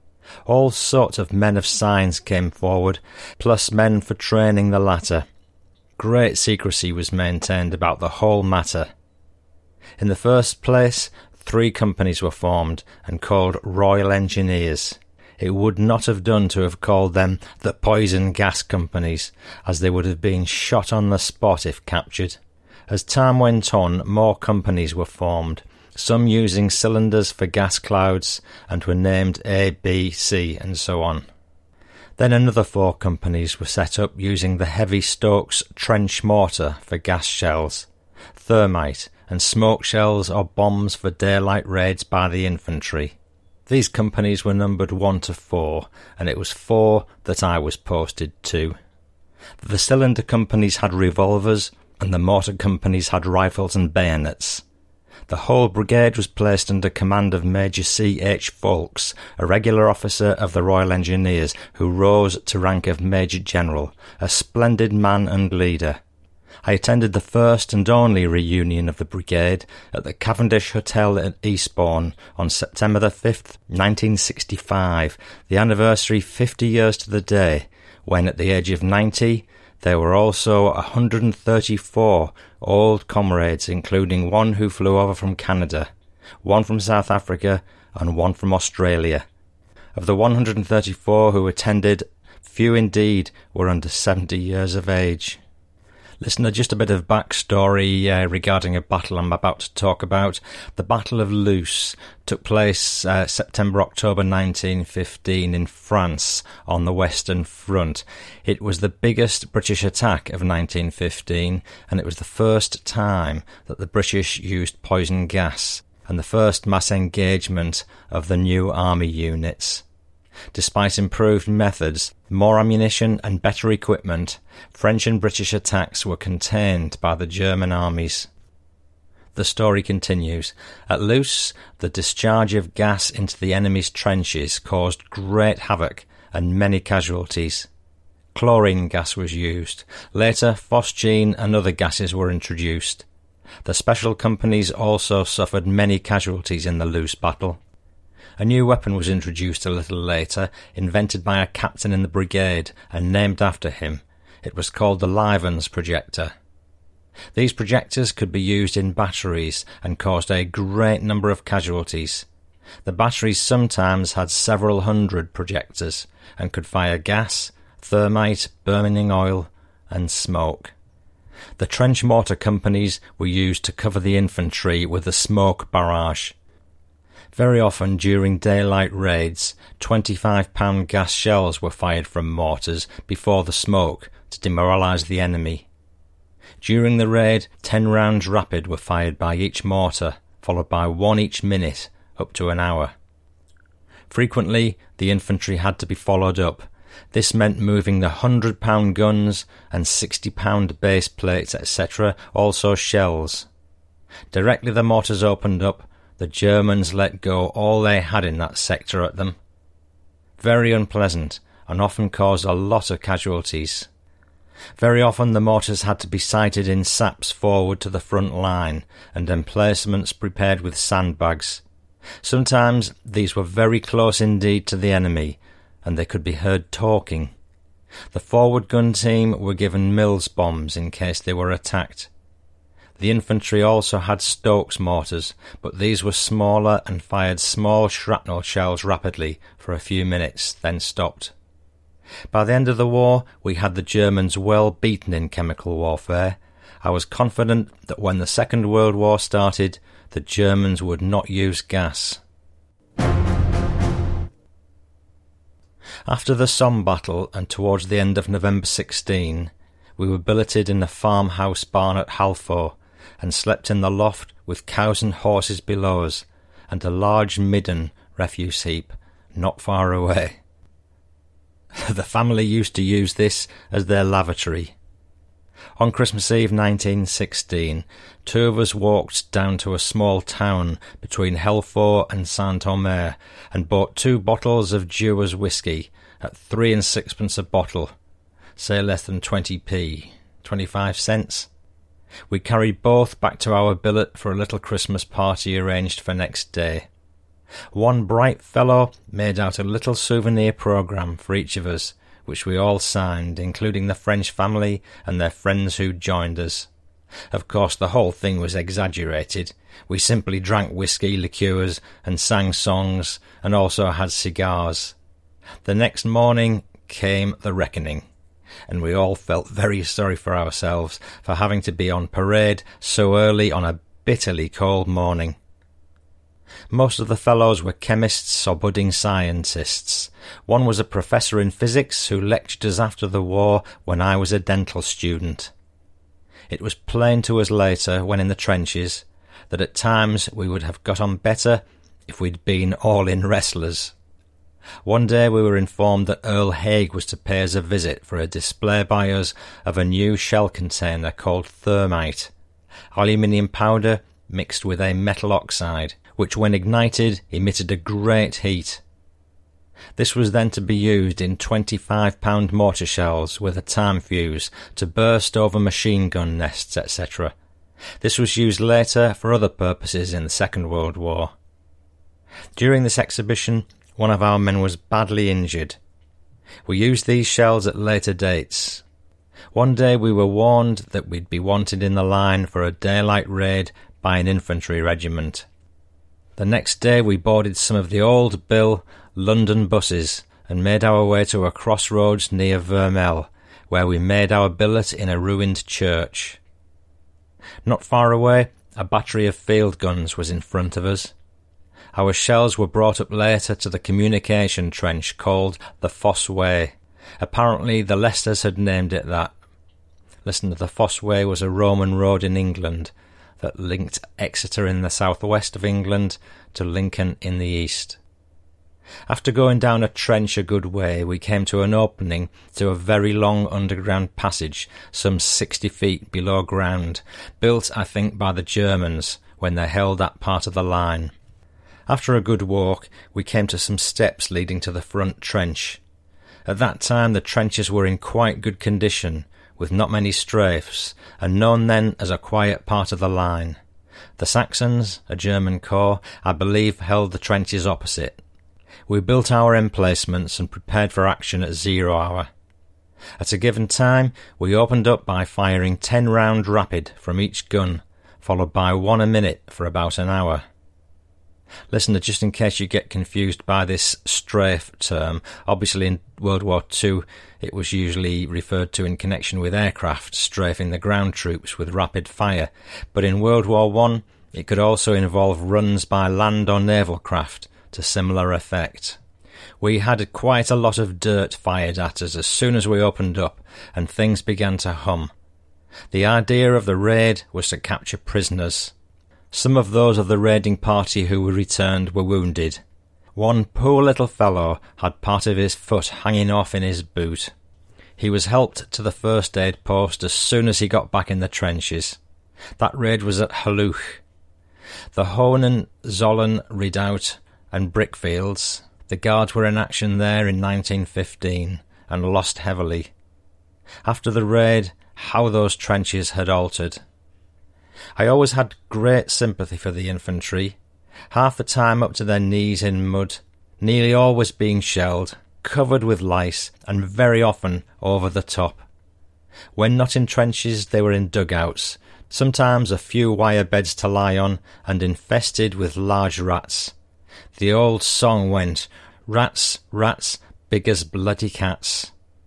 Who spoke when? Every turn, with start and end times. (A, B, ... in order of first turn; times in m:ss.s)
0:00.4-0:05.2 A
0:06.0-0:08.9 A
0:10.0-0:22.4 A
0:22.9-0:31.2 A
0:32.2-0:43.2 A
0:43.7-0:48.8 A
0:49.6-0:54.6 A
0:55.3-1:06.0 A
1:06.6-1:25.9 A
1:26.4-1:29.2 A
1:29.9-1:35.4 A
1:36.2-1:59.8 A
2:00.5-2:08.3 A
2:09.3-2:17.7 A
2:18.3-2:23.0 A
2:23.6-2:27.6 A
2:28.4-2:36.3 A
2:37.3-2:42.2 A
2:42.8-2:50.7 A
2:51.6-2:56.3 A
2:57.3-3:05.7 A
3:06.6-3:12.9 A
3:14.1-3:23.5 A
3:24.3-3:29.4 A
3:30.4-3:33.9 A
3:34.8-3:41.6 A
3:42.2-3:47.3 A
3:48.1-3:52.1 A
3:53.0-4:01.3 A
4:02.3-4:12.2 A
4:16.1-4:30.4 A
4:31.8-4:34.7 A
4:35.8-4:47.9 A
4:48.6-4:51.5 A
4:52.3-4:56.9 A
4:57.7-5:06.7 A
5:07.3-5:15.0 A
5:15.6-5:18.0 A
5:18.7-5:25.4 A
5:26.7-5:35.5 A
5:36.5-5:43.9 A
5:44.8-5:52.3 A
5:52.9-5:58.8 A
6:00.0-6:07.3 A
6:08.0-6:11.3 A
6:12.6-6:15.8 A
6:16.6-6:18.8 A
6:19.5-6:25.4 A
6:26.4-6:36.4 A
6:37.6-6:41.1 A
6:41.9-6:49.3 A
6:50.2-6:58.0 A
6:59.1-7:11.1 A
7:11.9-7:15.8 A
7:16.4-7:23.6 A
7:24.2-7:28.2 A
7:28.9-7:32.3 A
7:33.2-7:40.4 A
7:41.7-7:59.0 A
7:59.6-8:05.1 A
8:05.9-8:08.7 A
8:09.3-8:12.6 A
8:13.1-8:17.3 A
8:18.0-8:22.0 A
8:22.6-8:24.0 A
8:24.9-8:32.9 A
8:33.8-8:36.8 A
8:38.0-8:40.6 A
8:41.1-8:48.6 A
8:49.6-8:56.7 A
8:57.4-9:01.9 A